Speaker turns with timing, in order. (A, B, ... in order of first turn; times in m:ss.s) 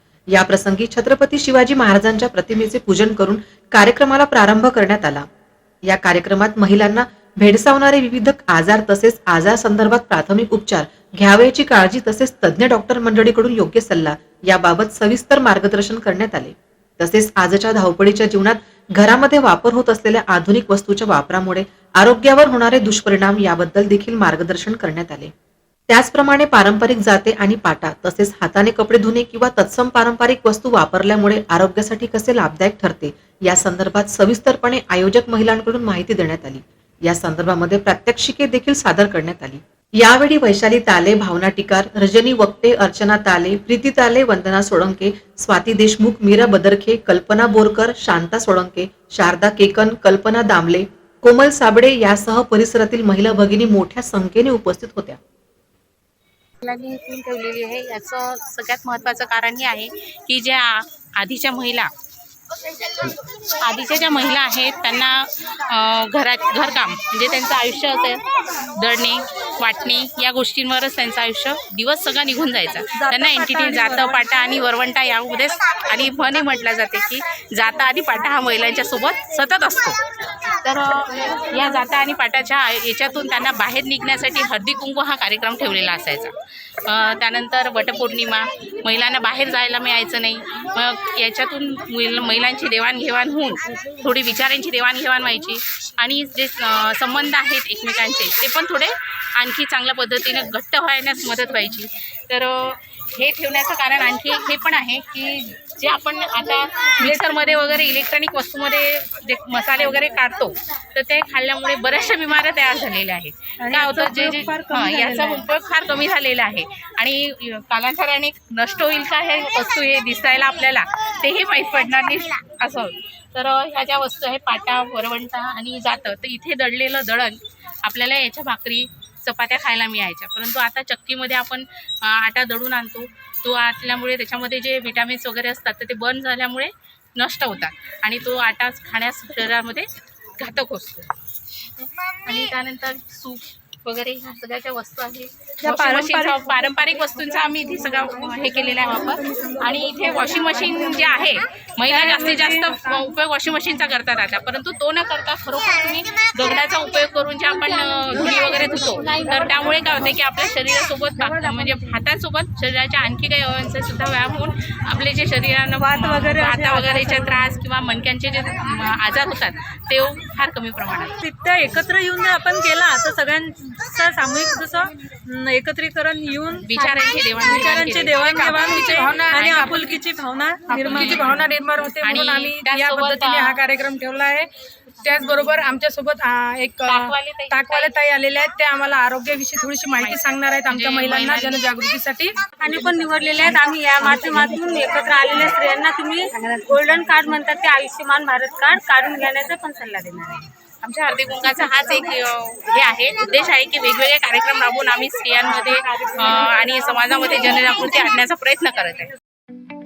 0:00.3-0:05.2 A
0:05.8-0:25.3 A
0:25.9-0:55.2 A
0:56.6-1:01.9 B
1:03.0-1:20.0 B
1:12.9-1:14.2 C
1:20.6-1:26.3 B
1:26.8-2:21.1 B
1:53.6-1:55.4 C
2:21.8-2:51.2 B
2:25.6-2:26.5 C
2:45.8-2:47.5 C
2:51.2-3:01.2 C
2:56.6-2:58.2 B
2:58.3-3:00.0 D
3:00.7-3:12.5 D
3:00.8-3:01.5 B
3:02.0-3:03.6 B
3:06.9-3:08.0 B
3:10.0-3:11.6 B
3:12.6-3:20.5 E
3:12.7-3:14.5 B
3:20.8-3:29.1 B